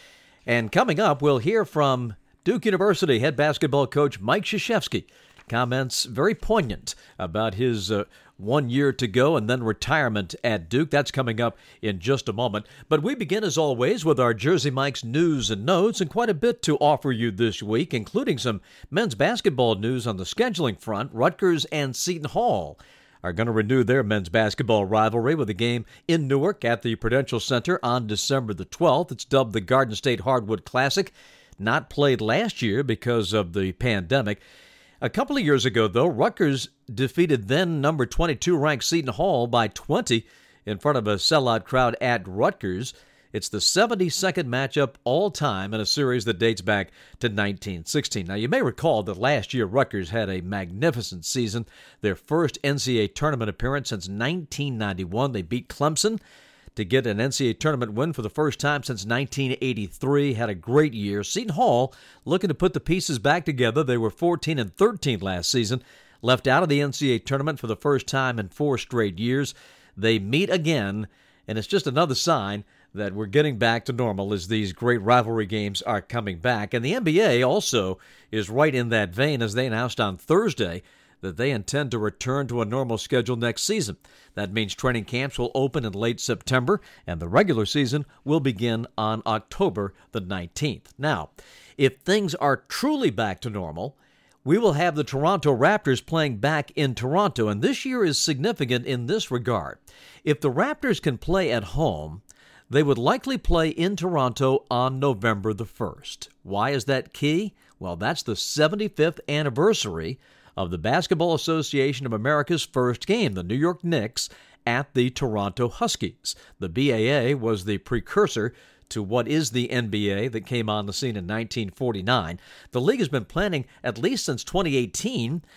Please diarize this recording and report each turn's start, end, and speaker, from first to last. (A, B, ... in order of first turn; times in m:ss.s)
0:00.5-0:34.4 A
0:35.0-0:56.2 A
0:56.8-2:05.4 A